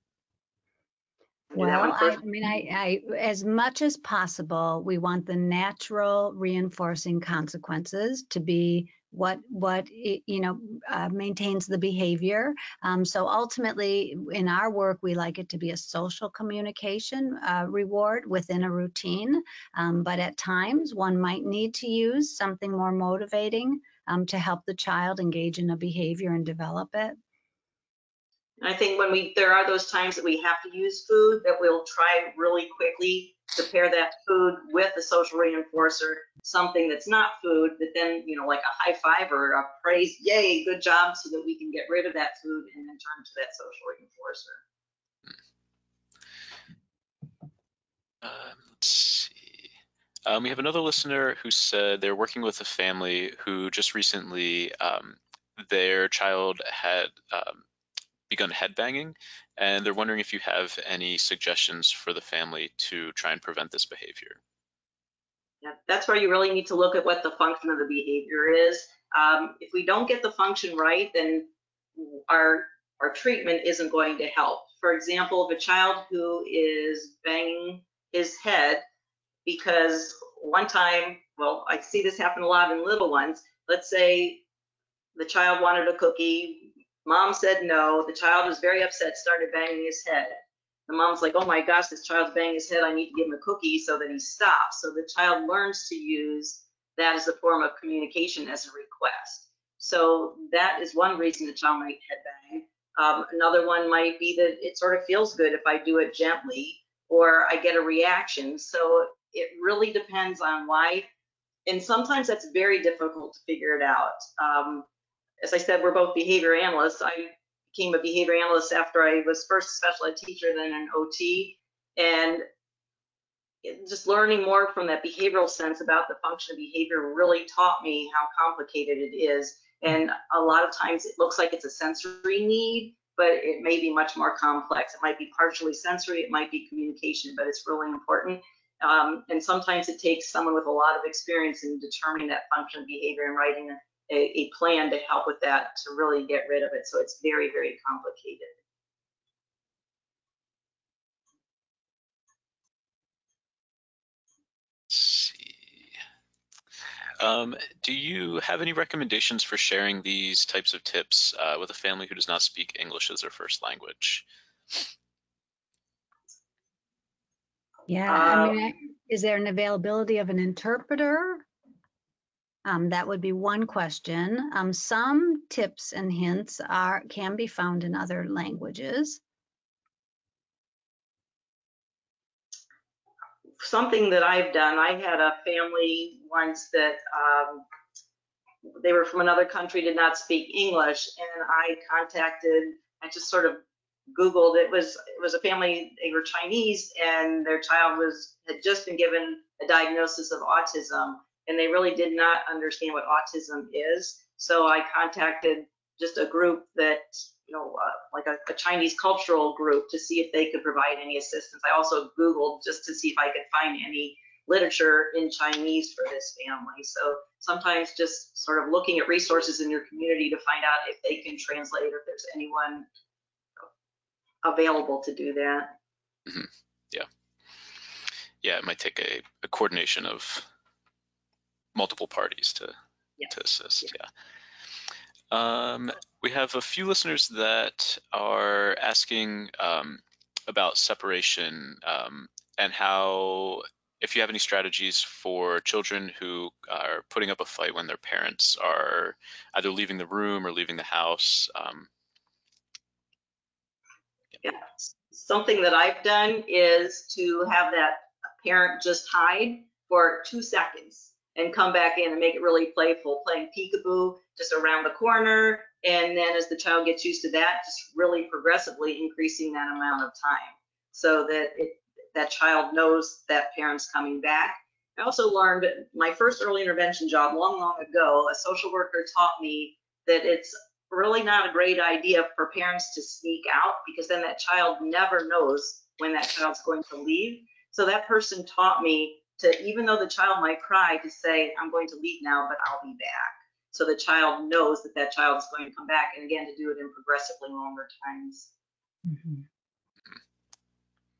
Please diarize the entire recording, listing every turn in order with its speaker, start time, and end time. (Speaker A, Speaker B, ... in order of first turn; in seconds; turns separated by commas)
Speaker A: 1.5-27.2, Speaker B: 1.5-2.2, Speaker B: 28.6-44.6, Speaker C: 48.2-49.6, Speaker C: 50.2-57.6, Speaker C: 58.3-64.4, Speaker B: 65.6-78.8, Speaker B: 79.4-84.4, Speaker B: 85.2-111.1, Speaker B: 111.7-114.8, Speaker B: 115.4-122.4, Speaker B: 123.6-148.5, Speaker C: 154.9-155.9, Speaker C: 157.2-164.8, Speaker A: 167.9-171.4, Speaker B: 168.1-168.6, Speaker A: 172.6-179.2, Speaker B: 183.6-187.6, Speaker B: 188.8-222.8, Speaker B: 224.4-225.7, Speaker C: 226.3-227.1, Speaker C: 228.4-230.5, Speaker C: 231.7-232.7, Speaker C: 233.3-234.1, Speaker C: 235.3-251.9, Speaker B: 254.4-298.5, Speaker A: 299.1-299.4